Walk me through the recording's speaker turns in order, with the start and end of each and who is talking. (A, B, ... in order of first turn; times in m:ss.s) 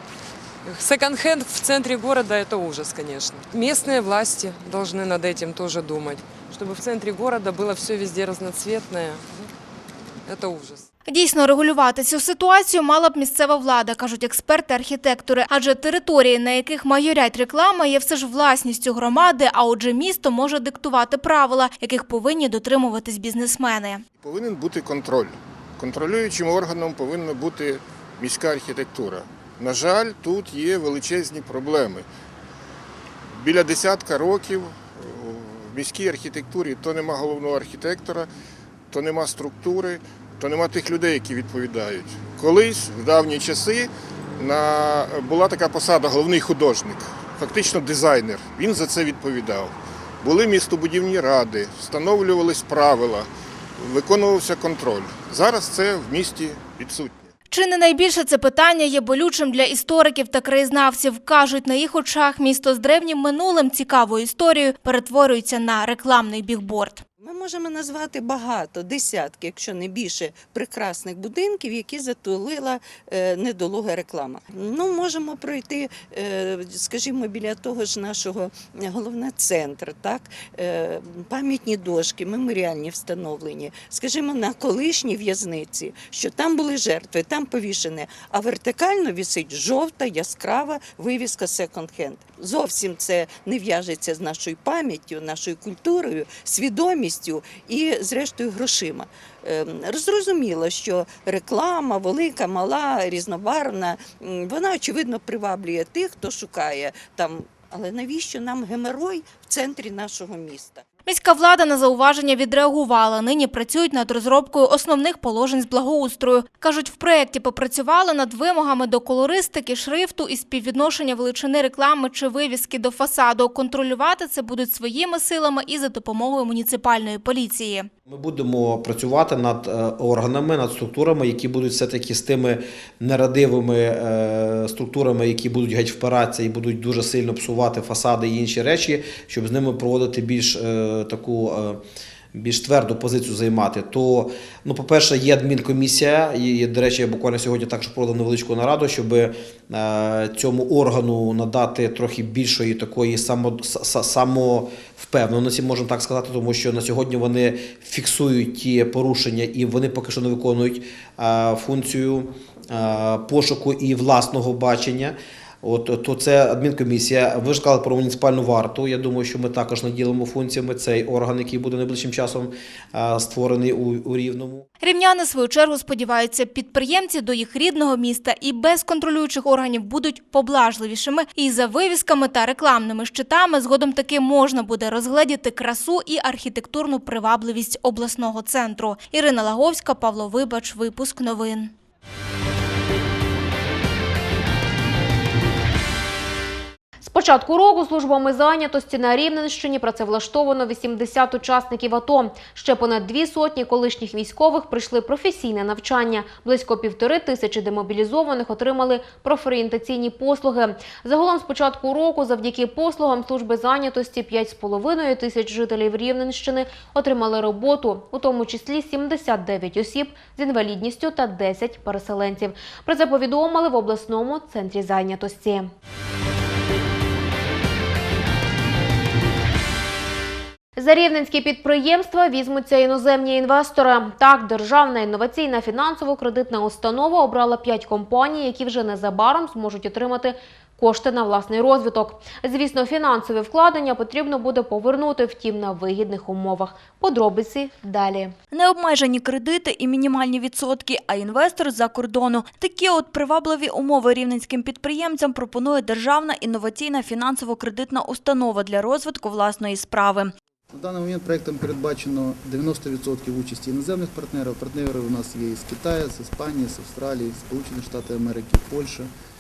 0:00.6-0:09.5 A
0:10.3-0:10.9 A
0:11.1-0:24.0 B
0:24.2-0:32.0 C
0:33.4-0:38.3 C
0:38.9-0:49.7 C
0:50.2-0:53.3 C
0:53.8-0:57.3 C
0:57.5-1:07.0 B
1:07.2-1:50.8 D
1:51.1-2:07.9 B
2:08.1-2:21.8 E
2:22.3-2:54.6 E
2:54.8-3:11.7 B
3:17.0-3:45.7 F
3:50.8-4:08.3 F
4:08.5-4:20.3 G
4:20.7-4:29.1 H